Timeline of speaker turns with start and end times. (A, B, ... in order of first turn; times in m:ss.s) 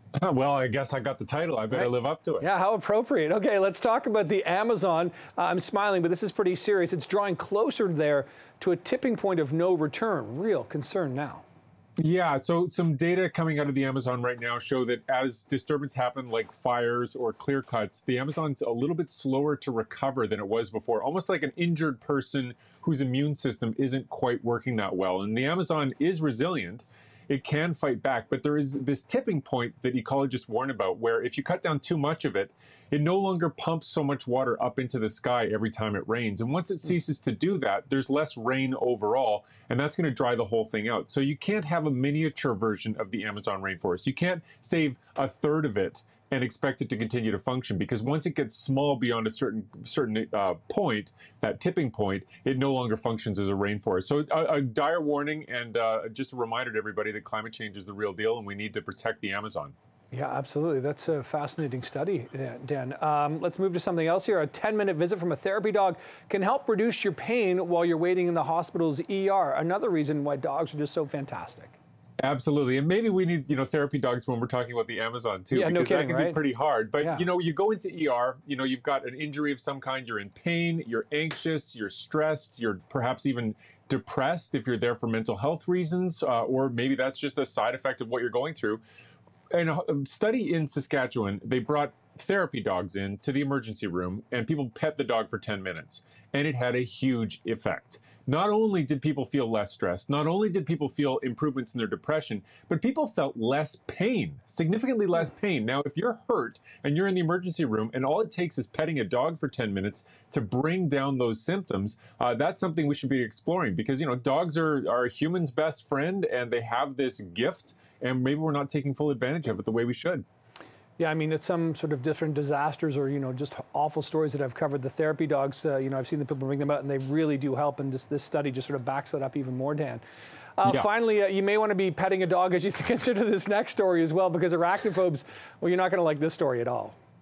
0:00.2-0:02.5 A
0:01.7-0:11.4 B
0:12.0-0:59.7 A
1:00.1-1:11.7 B
1:12.2-1:28.8 A
1:15.5-1:16.4 B
1:17.0-1:17.2 B
1:29.5-2:00.2 A
2:01.0-2:10.0 B
2:10.6-2:17.0 B
2:10.6-2:10.9 A